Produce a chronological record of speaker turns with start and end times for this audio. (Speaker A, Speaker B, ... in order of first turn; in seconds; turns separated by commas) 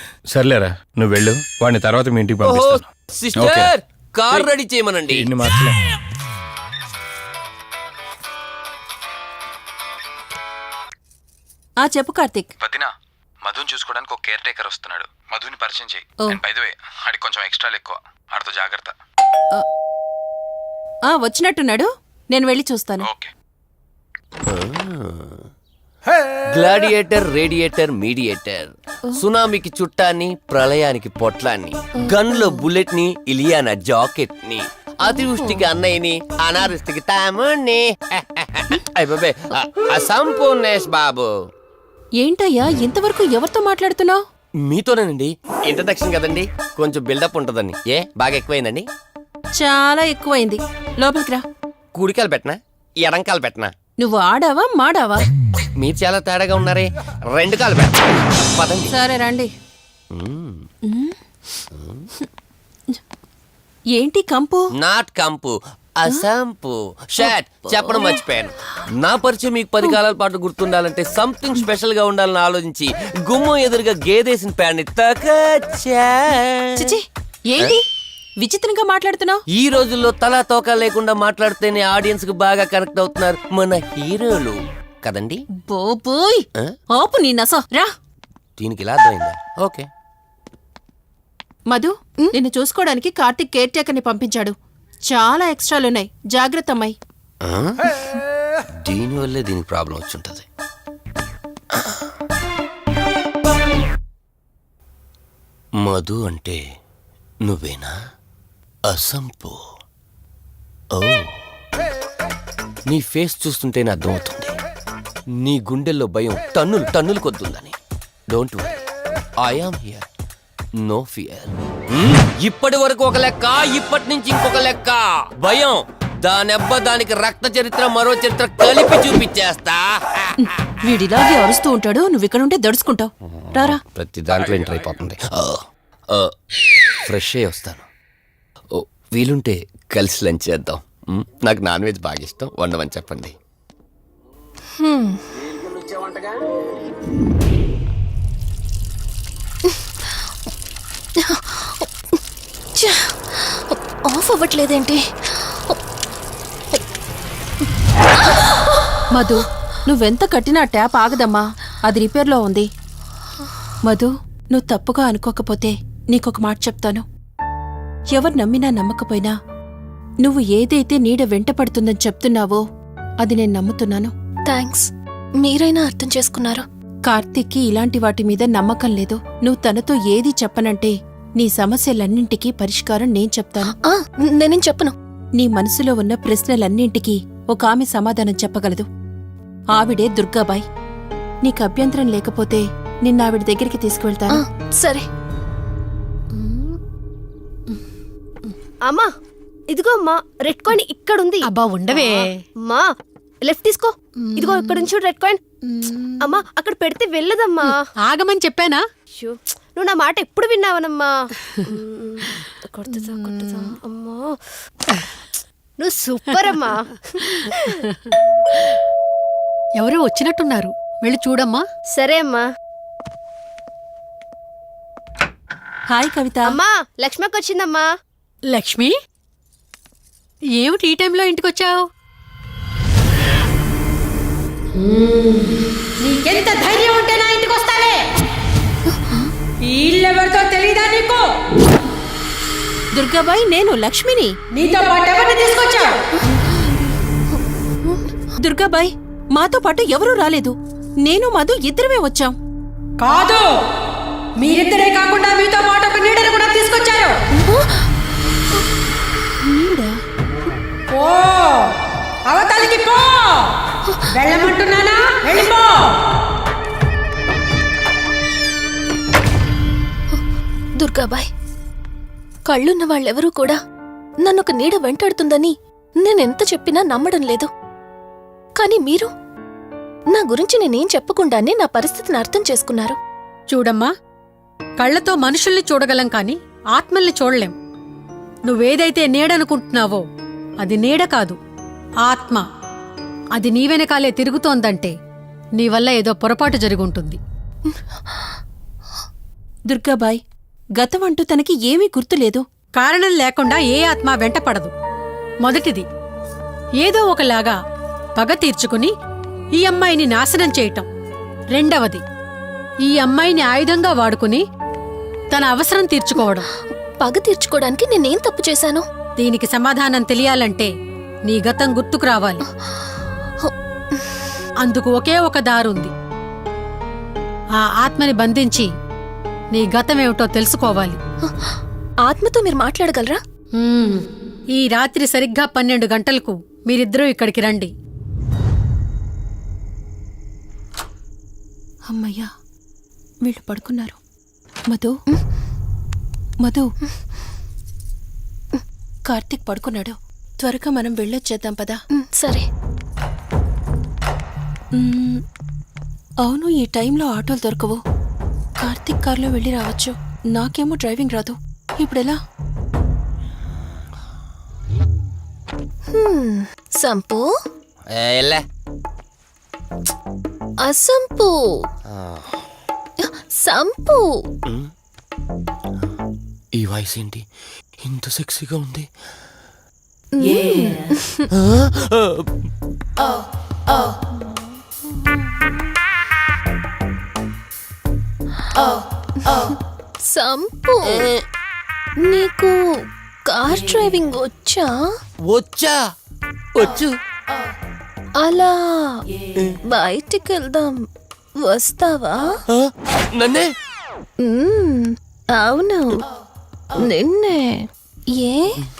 Speaker A: 0.3-2.8, Speaker B: 2.5-5.3, Speaker C: 3.3-3.7, Speaker A: 5.2-5.8, Speaker D: 11.8-12.5, Speaker C: 12.6-12.9, Speaker C: 13.4-18.9, Speaker D: 21.1-23.1, Speaker C: 23.0-23.3, Speaker B: 24.5-25.0, Speaker B: 26.5-28.7, Speaker B: 29.2-41.3, Speaker D: 42.2-44.2, Speaker B: 44.7-48.9, Speaker D: 49.6-51.4, Speaker B: 51.9-53.7, Speaker D: 54.0-55.3, Speaker B: 55.8-57.9, Speaker B: 58.6-58.9, Speaker D: 58.8-59.5, Speaker D: 60.9-61.1, Speaker D: 64.0-64.6, Speaker B: 64.8-68.5, Speaker D: 67.8-68.2, Speaker B: 69.0-76.6, Speaker D: 76.8-77.8, Speaker D: 78.4-79.4, Speaker B: 79.5-85.4, Speaker D: 85.7-87.9, Speaker B: 88.6-89.9, Speaker D: 91.7-94.5, Speaker D: 95.1-96.9, Speaker B: 98.8-100.4, Speaker B: 105.8-106.6, Speaker B: 107.5-107.9, Speaker B: 108.9-109.6, Speaker B: 111.0-111.3, Speaker B: 112.9-114.5, Speaker B: 115.4-117.7, Speaker B: 118.3-118.7, Speaker B: 119.4-120.0, Speaker B: 120.8-129.8, Speaker D: 130.8-133.8, Speaker B: 133.9-135.6, Speaker B: 137.1-137.8, Speaker B: 138.8-143.3, Speaker E: 144.8-145.2, Speaker E: 152.8-155.0, Speaker D: 159.1-162.7, Speaker D: 163.8-167.0, Speaker D: 168.1-169.3, Speaker D: 170.2-172.6, Speaker D: 173.2-174.1, Speaker E: 174.5-174.9, Speaker E: 175.4-176.6, Speaker D: 177.0-183.8, Speaker E: 183.8-184.9, Speaker D: 185.4-188.8, Speaker D: 189.7-190.6, Speaker D: 191.4-194.4, Speaker E: 194.3-195.0, Speaker F: 198.8-199.1, Speaker F: 199.7-202.9, Speaker G: 201.4-202.4, Speaker F: 203.4-205.4, Speaker G: 204.3-204.9, Speaker G: 205.7-206.4, Speaker F: 206.2-207.8, Speaker G: 207.6-208.8, Speaker F: 209.2-211.2, Speaker F: 211.7-214.4, Speaker G: 213.3-213.7, Speaker F: 215.8-217.7, Speaker G: 219.8-221.6, Speaker F: 221.9-222.4, Speaker D: 225.9-226.6, Speaker F: 226.4-227.9, Speaker G: 228.5-228.9, Speaker G: 230.6-231.8, Speaker G: 236.0-238.0, Speaker G: 239.6-241.2, Speaker D: 242.9-244.3, Speaker G: 244.5-245.9, Speaker D: 248.4-250.5, Speaker D: 251.0-252.3, Speaker G: 253.0-253.5, Speaker G: 254.4-257.2, Speaker D: 259.4-259.9, Speaker G: 260.9-261.6, Speaker G: 262.3-263.3, Speaker G: 264.1-265.9, Speaker E: 270.8-271.3, Speaker E: 272.5-273.6, Speaker E: 274.2-277.5, Speaker E: 278.6-279.1, Speaker E: 280.1-282.9, Speaker G: 283.5-283.9, Speaker G: 284.8-287.5, Speaker G: 288.5-290.0, Speaker G: 290.6-291.4, Speaker G: 292.0-292.4, Speaker G: 293.4-294.9, Speaker G: 295.6-297.2, Speaker D: 299.7-300.2, Speaker D: 300.8-302.4, Speaker G: 302.8-304.7, Speaker G: 305.4-305.8, Speaker G: 306.8-307.6, Speaker G: 308.2-308.9, Speaker G: 309.5-310.9, Speaker G: 311.5-312.0, Speaker G: 312.8-314.4, Speaker G: 315.3-316.5, Speaker E: 317.0-318.8, Speaker G: 319.2-320.7, Speaker G: 321.2-322.4, Speaker G: 324.6-325.9, Speaker G: 327.6-328.7, Speaker G: 329.5-331.0, Speaker E: 332.1-333.2, Speaker G: 333.6-334.0, Speaker G: 334.6-337.7, Speaker D: 341.9-342.3, Speaker D: 343.2-344.0, Speaker D: 349.1-351.8, Speaker E: 352.1-352.4, Speaker D: 354.7-355.2, Speaker D: 356.2-357.8, Speaker D: 358.6-362.2, Speaker E: 365.9-367.2, Speaker B: 367.9-368.4, Speaker E: 370.6-371.6, Speaker E: 373.4-374.0, Speaker B: 376.6-377.2, Speaker B: 377.9-378.8, Speaker E: 380.2-381.2, Speaker E: 390.1-391.1, Speaker E: 392.0-392.5, Speaker E: 393.3-394.7, Speaker B: 395.3-395.8, Speaker B: 396.6-396.9, Speaker E: 398.2-399.0, Speaker E: 399.7-400.7, Speaker E: 401.4-402.4, Speaker B: 403.1-403.4, Speaker E: 404.2-406.0, Speaker E: 406.8-408.5